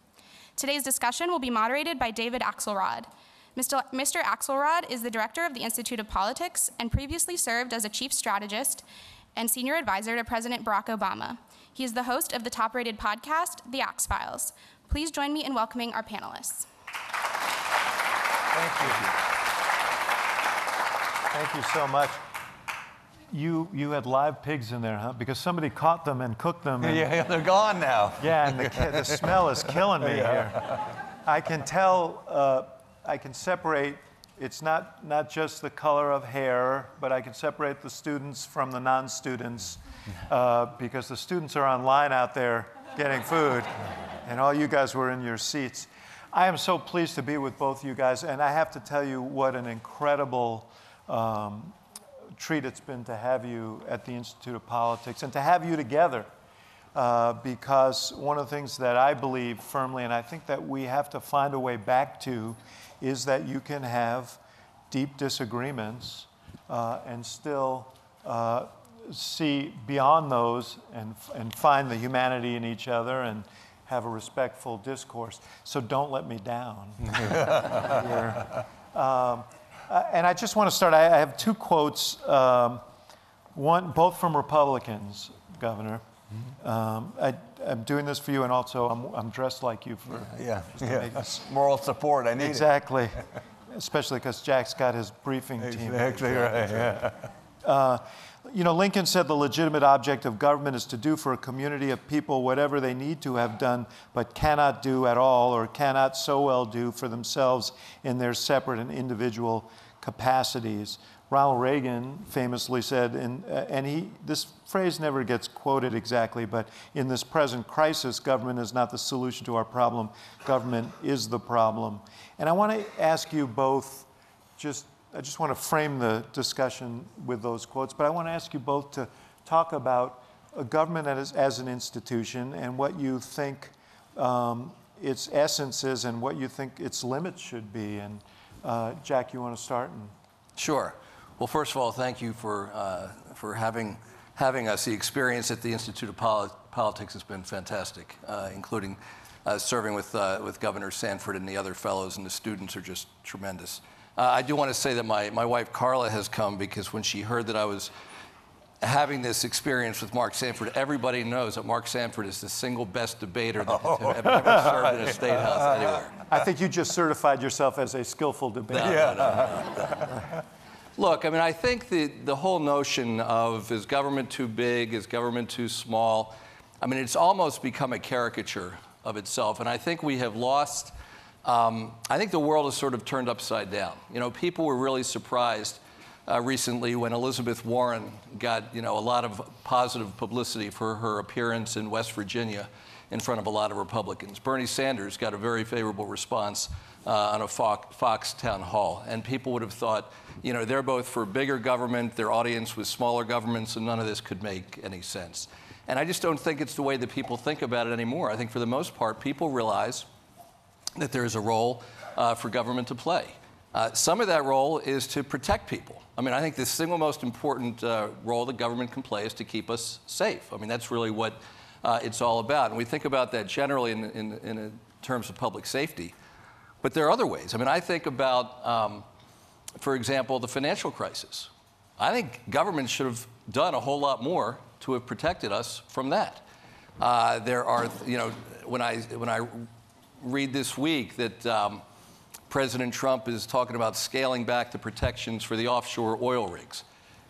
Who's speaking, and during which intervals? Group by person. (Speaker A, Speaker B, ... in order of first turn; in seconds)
Speaker A: 0.6-8.8, 9.3-16.7
Speaker B: 18.5-19.1, 21.3-22.3, 23.3-27.1, 28.2-51.8, 52.4-56.3, 56.9-64.4, 64.9-82.8, 83.5-86.0, 86.6-91.5, 92.4-97.0, 97.6-124.1, 124.6-140.1, 166.3-169.5
Speaker C: 26.8-29.4, 30.0-30.9, 90.1-92.7, 95.6-97.3, 163.7-166.0
Speaker D: 140.6-157.9, 158.8-166.2, 168.7-170.2, 170.9-210.1, 210.9-226.1, 226.8-229.1, 229.8-236.4, 237.0-241.8, 242.5-246.8